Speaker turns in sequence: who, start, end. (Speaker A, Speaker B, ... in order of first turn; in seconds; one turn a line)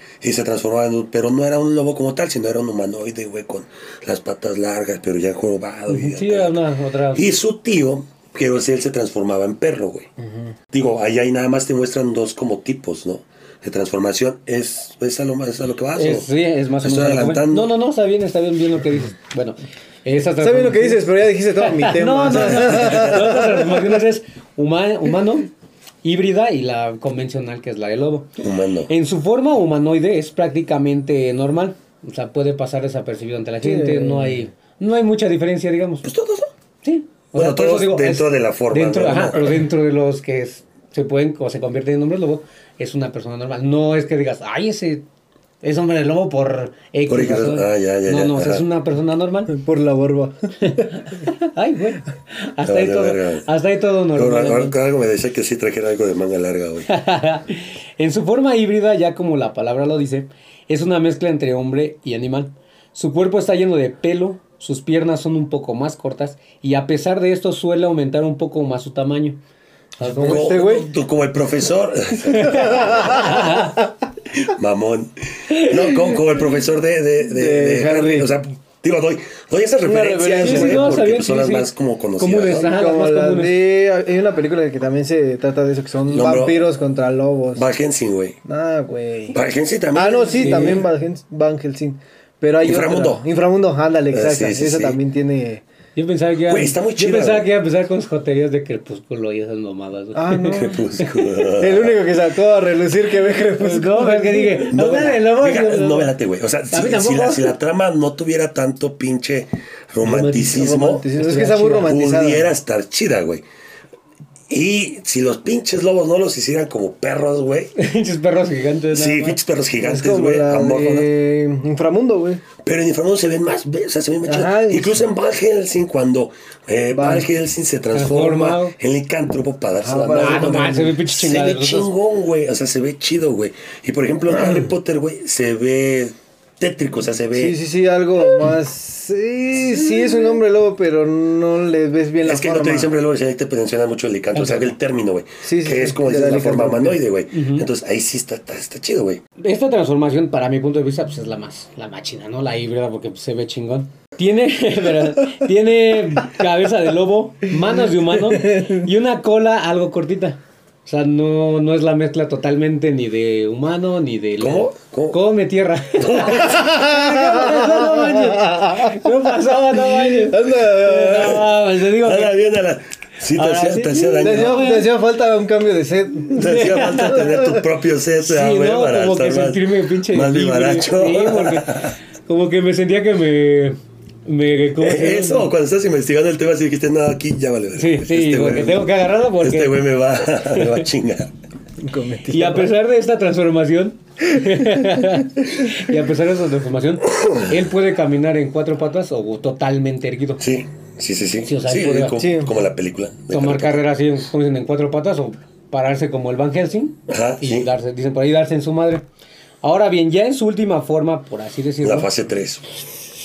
Speaker A: 0.2-6.6
Speaker B: 5.9-7.3
Speaker A: 7.1-10.1
Speaker C: 10.2-10.5
Speaker A: 10.7-16.3
Speaker B: 15.9-25.5
Speaker A: 16.8-17.7
Speaker C: 20.4-23.8
Speaker B: 26.0-28.3
Speaker A: 28.4-28.9
Speaker B: 28.9-36.0
Speaker C: 33.6-34.5
Speaker A: 36.0-36.5
Speaker B: 36.8-45.0
Speaker A: 37.3-39.6
Speaker B: 45.6-49.5
Speaker A: 47.1-48.6
Speaker C: 49.5-50.9
Speaker B: 50.6-54.8
Speaker A: 52.6-53.5
Speaker A: 54.1-56.9
Speaker B: 56.9-69.4
Speaker B: 70.0-70.6
Speaker C: 70.0-70.9
Speaker A: 70.2-73.5
Speaker B: 72.3-73.8
Speaker C: 72.5-73.7
Speaker A: 74.4-82.7
Speaker B: 75.5-76.1
Speaker C: 77.3-78.3
Speaker C: 79.8-81.1
Speaker B: 80.4-83.6
Speaker C: 82.5-87.7
Speaker A: 86.1-86.6
Speaker A: 87.5-88.4
Speaker C: 88.4-89.4
Speaker A: 89.3-90.8
Speaker C: 89.9-95.6
Speaker B: 90.4-90.8
Speaker A: 92.6-93.2
Speaker A: 94.1-95.0
Speaker B: 96.0-101.4
Speaker A: 96.5-97.5
Speaker C: 100.1-100.8
Speaker A: 100.5-102.0
Speaker C: 101.6-104.7
Speaker B: 103.6-106.1
Speaker A: 104.6-111.1
Speaker B: 106.7-107.5
Speaker B: 110.0-110.6
Speaker C: 110.2-112.5
Speaker B: 111.2-111.9
Speaker A: 111.8-113.4
Speaker A: 114.5-117.7
Speaker B: 117.8-119.4
Speaker A: 118.9-121.1
Speaker C: 119.8-122.4
Speaker A: 122.6-137.6
Speaker C: 124.2-125.1
Speaker C: 126.9-127.3
Speaker B: 127.9-128.7
Speaker C: 129.8-130.9
Speaker B: 130.1-131.9
Speaker C: 137.3-142.9
Speaker A: 142.2-149.2
Speaker B: 144.3-144.7
Speaker C: 145.4-147.0
Speaker B: 147.3-147.7
Speaker B: 149.4-172.3
Speaker C: 158.3-158.8
Speaker A: 164.4-165.2
Speaker A: 166.0-166.6
Speaker C: 166.4-169.1
Speaker C: 169.9-171.4
Speaker A: 171.2-174.7
Speaker B: 173.3-174.9
Speaker C: 174.2-177.6
Speaker A: 176.3-181.9
Speaker B: 176.3-177.4
Speaker B: 178.2-185.5
Speaker A: 184.8-191.3
Speaker B: 187.8-189.8
Speaker B: 190.4-190.8
Speaker C: 191.8-192.7
Speaker B: 192.3-200.4
Speaker A: 197.1-197.5
Speaker A: 200.4-203.8
Speaker B: 201.4-202.2
Speaker C: 202.2-202.5
Speaker B: 203.3-209.0
Speaker A: 207.1-207.7
Speaker B: 209.6-212.1
Speaker A: 211.8-212.6